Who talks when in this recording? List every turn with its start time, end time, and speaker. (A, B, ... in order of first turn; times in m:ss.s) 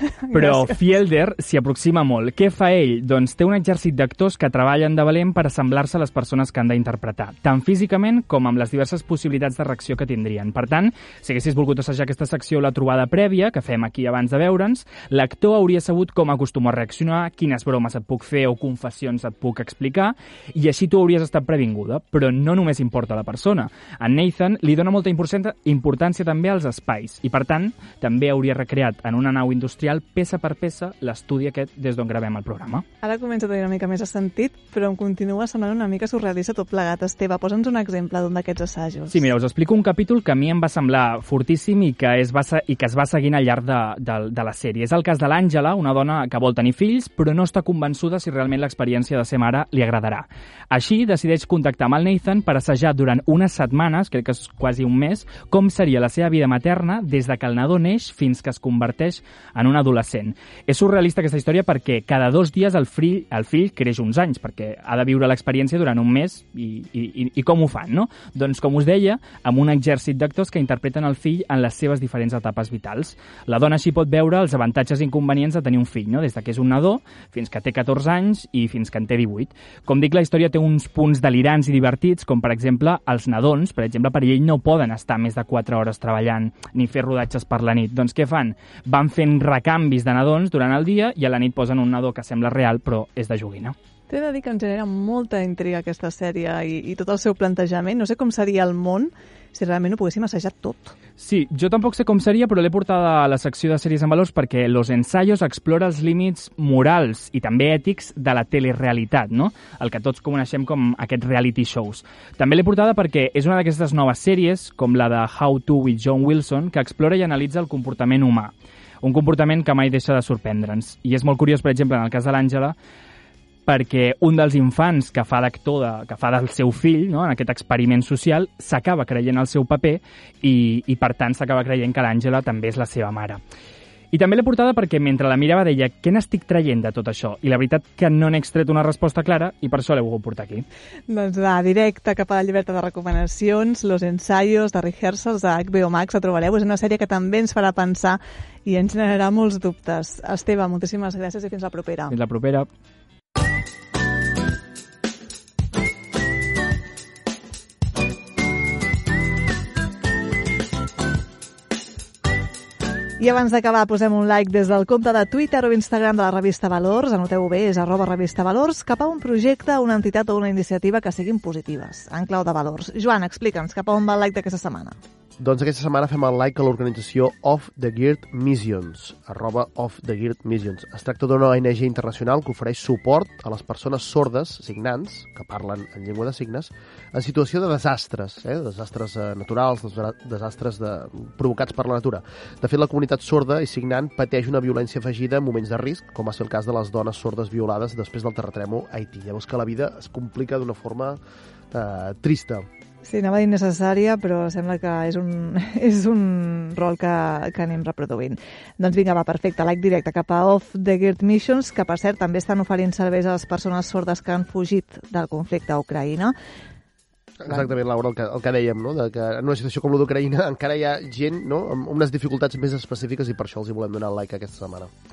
0:00.2-0:00.8 A
0:00.3-0:32.8 B
0:33.0-0:39.3 A
0:39.1-1:33.8 B
1:34.1-1:41.0 A
1:41.2-2:02.7 B
2:03.6-2:13.4 B
2:14.1-2:20.6 B
2:21.1-2:32.2 A
2:32.1-2:32.7 B
2:43.2-2:55.0 A
2:55.4-3:21.2 C
3:21.7-3:22.6 C
3:23.0-3:36.3 A
3:37.4-3:44.9 C